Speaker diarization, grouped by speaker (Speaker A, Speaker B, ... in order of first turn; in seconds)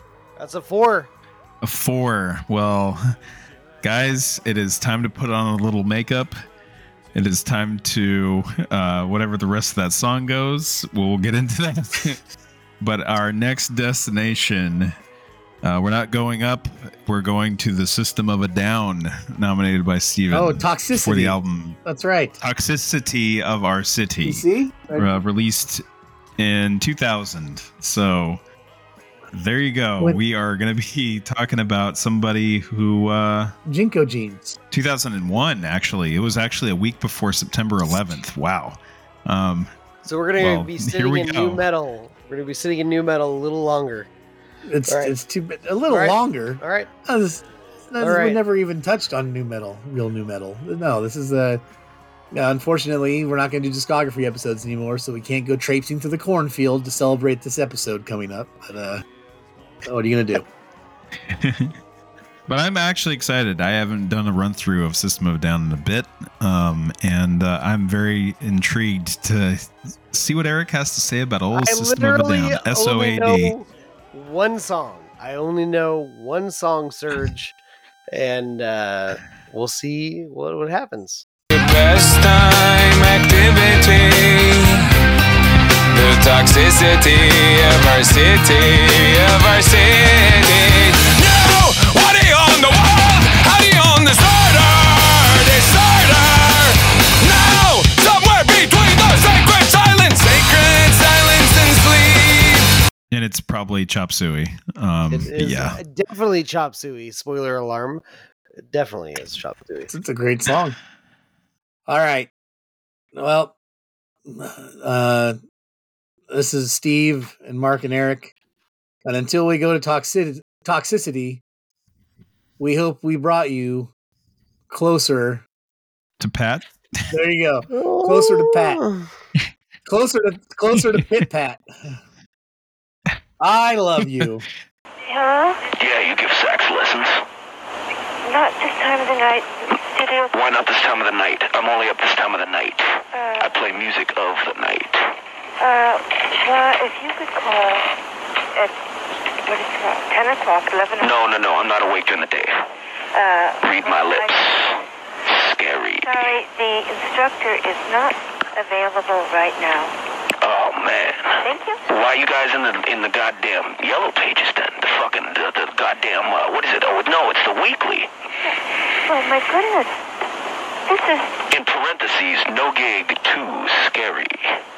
Speaker A: 0.4-1.1, 40.0-44.1, 44.9-45.1, 45.9-46.9, 48.0-48.4, 71.5-77.5, 78.1-81.2, 105.1-108.0, 108.7-109.9, 127.8-129.1
Speaker B: 1.6-3.0, 3.8-6.4, 7.1-12.2, 12.8-14.9, 15.6-21.8, 22.4-25.8, 26.4-28.4, 29.3-33.5, 34.7-39.7, 40.4-41.6, 61.3-61.7, 62.5-73.5, 103.1-105.8, 126.2-126.7, 130.8-131.1, 134.0-134.3
Speaker C: 20.3-22.3, 24.2-25.2, 33.6-34.5, 44.7-51.6, 52.3-59.0, 59.8-60.5, 109.9-110.8, 111.9-112.3, 113.1-113.5, 114.2-115.4, 116.3-118.3, 119.0-121.4, 122.6-123.9, 124.7-125.5, 127.1-128.8, 129.9-132.0, 133.4-134.4
Speaker D: 81.5-84.8, 85.9-102.7
Speaker E: 135.1-135.7, 138.2-140.3, 143.1-143.5, 145.6-147.9, 149.4-151.2, 153.1-154.5, 156.0-159.9, 161.4-161.8, 169.0-169.9, 170.9-171.4
Speaker F: 135.8-137.1, 140.3-142.9, 143.4-145.0, 151.0-152.5, 153.6-154.8, 155.3-156.3, 160.4-168.1, 171.5-174.4